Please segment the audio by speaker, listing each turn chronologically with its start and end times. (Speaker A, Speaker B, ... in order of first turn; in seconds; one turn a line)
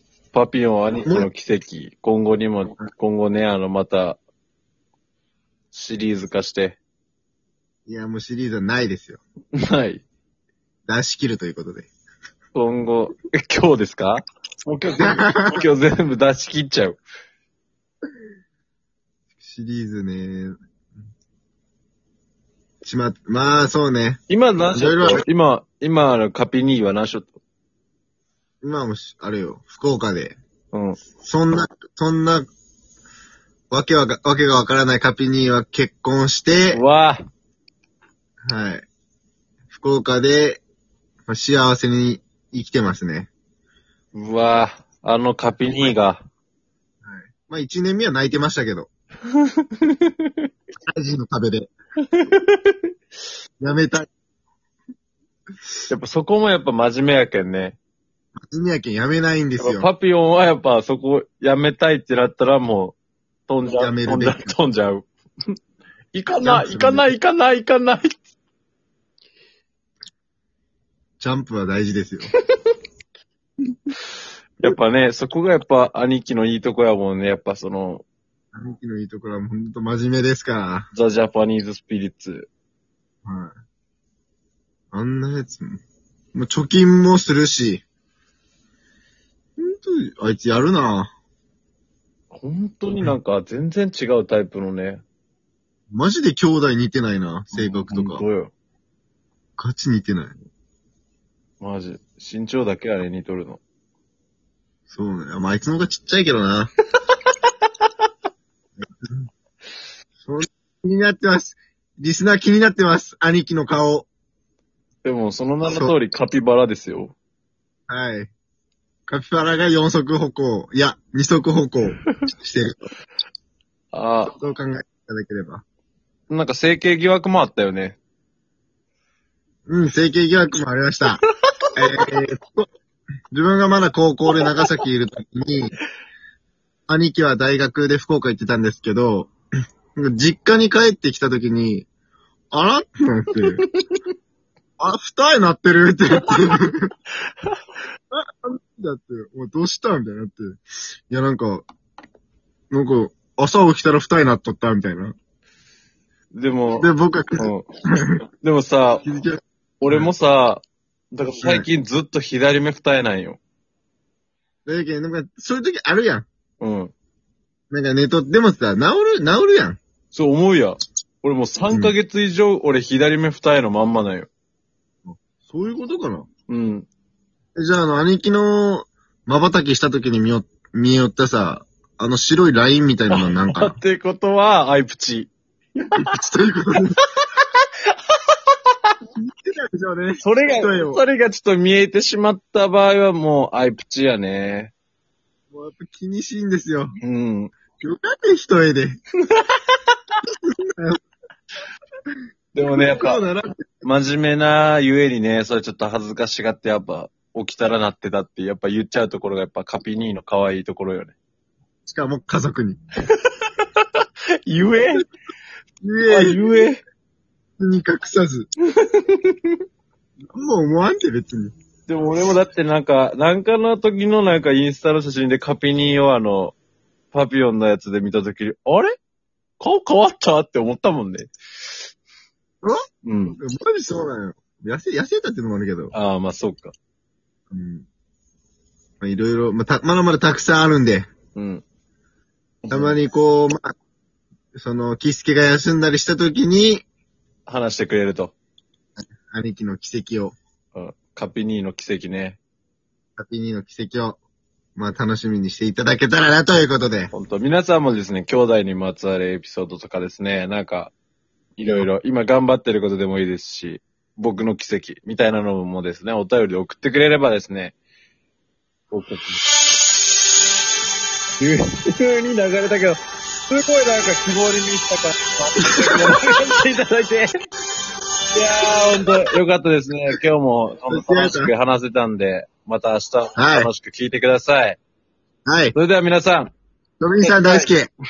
Speaker A: 0.3-4.2
Speaker A: 5.7-6.8
Speaker B: 7.9-9.2
Speaker A: 9.6-10.0
Speaker B: 10.9-11.9
Speaker A: 12.5-17.0
Speaker B: 15.0-15.6
Speaker B: 19.4-20.6
Speaker B: 22.8-24.2
Speaker A: 24.3-27.4
Speaker B: 24.7-25.2
Speaker B: 28.6-30.4
Speaker A: 30.7-31.0
Speaker B: 31.2-32.4
Speaker B: 33.7-36.8
Speaker A: 36.7-37.2
Speaker B: 38.5-38.9
Speaker B: 39.7-40.6
Speaker B: 41.3-43.3
Speaker A: 44.1-46.2
Speaker B: 47.0-48.9
Speaker A: 49.6-50.5
Speaker B: 50.9-51.7
Speaker A: 52.0-52.9
Speaker B: 53.6-54.1
Speaker A: 55.9-57.8
Speaker B: 58.5-59.9
Speaker A: 59.6-63.0
Speaker A: 63.5-65.1
Speaker B: 63.7-64.6
Speaker A: 66.1-68.2
Speaker B: 66.4-67.1
Speaker B: 71.2-72.3
Speaker A: 74.6-78.0
Speaker B: 78.5-80.9
Speaker A: 80.9-82.5
Speaker B: 83.2-83.5
Speaker B: 84.9-85.8
Speaker B: 86.3-87.8
Speaker B: 89.6-91.1
Speaker A: 92.3-95.0
Speaker B: 95.9-98.2
Speaker A: 97.5-98.5
Speaker B: 99.6-100.3
Speaker A: 101.6-103.6
Speaker B: 104.9-106.7
Speaker B: 108.8-109.3
Speaker B: 110.2-114.1
Speaker A: 115.0-117.2
Speaker B: 115.7-116.0
Speaker B: 117.9-118.3
Speaker B: 119.1-122.9
Speaker A: 123.9-124.3
Speaker B: 124.4-125.6
Speaker A: 126.3-128.0
Speaker B: 129.7-131.2
Speaker B: 131.8-132.7
Speaker B: 133.3-135.7
Speaker A: 134.4-134.7
Speaker B: 136.9-139.3
Speaker B: 139.9-141.9
Speaker B: 142.5-143.6
Speaker A: 143.4-144.0
Speaker B: 144.8-146.9
Speaker B: 148.1-151.7
Speaker B: 152.7-155.2
Speaker A: 156.3-157.7
Speaker B: 156.8-158.2
Speaker A: 158.4-159.1
Speaker B: 159.0-160.1
Speaker A: 159.8-163.4
Speaker B: 161.4-161.7
Speaker B: 164.7-166.3
Speaker A: 166.6-166.9
Speaker B: 167.7-169.8
Speaker A: 170.1-174.3
Speaker B: 171.7-171.9
Speaker B: 175.1-176.3
Speaker A: 176.5-176.9
Speaker B: 177.6-183.8
Speaker A: 183.1-185.3
Speaker B: 185.9-187.0
Speaker B: 189.2-191.0
Speaker A: 190.2-194.7
Speaker B: 195.5-196.9
Speaker A: 197.0-197.5
Speaker B: 197.8-199.0
Speaker B: 200.4-201.0
Speaker A: 202.5-203.2
Speaker B: 202.6-203.8
Speaker A: 203.8-211.2
Speaker B: 211.9-212.8
Speaker A: 213.4-213.8
Speaker A: 214.5-215.1
Speaker B: 215.8-216.7
Speaker A: 216.1-216.8
Speaker B: 217.6-218.5
Speaker A: 218.8-219.6
Speaker B: 220.3-221.5
Speaker A: 221.9-226.6
Speaker A: 227.1-228.9
Speaker A: 229.6-231.3
Speaker A: 233.0-233.4
Speaker B: 233.3-235.9
Speaker A: 235.9-236.7
Speaker B: 237.5-237.9
Speaker B: 239.0-241.1
Speaker A: 241.3-241.6
Speaker A: 242.6-243.0
Speaker B: 242.7-243.7
Speaker B: 244.6-246.8
Speaker A: 247.5-248.3
Speaker B: 249.3-250.4
Speaker A: 250.8-252.4
Speaker B: 253.2-254.2
Speaker B: 254.8-257.1
Speaker A: 257.1-260.9
Speaker A: 261.6-267.8
Speaker A: 268.9-269.4
Speaker A: 271.4-277.3
Speaker B: 275.9-276.2
Speaker A: 278.3-284.8
Speaker B: 280.9-281.5
Speaker B: 283.4-283.7
Speaker B: 285.5-285.8
Speaker A: 285.7-286.5
Speaker B: 287.0-287.9
Speaker A: 287.2-287.7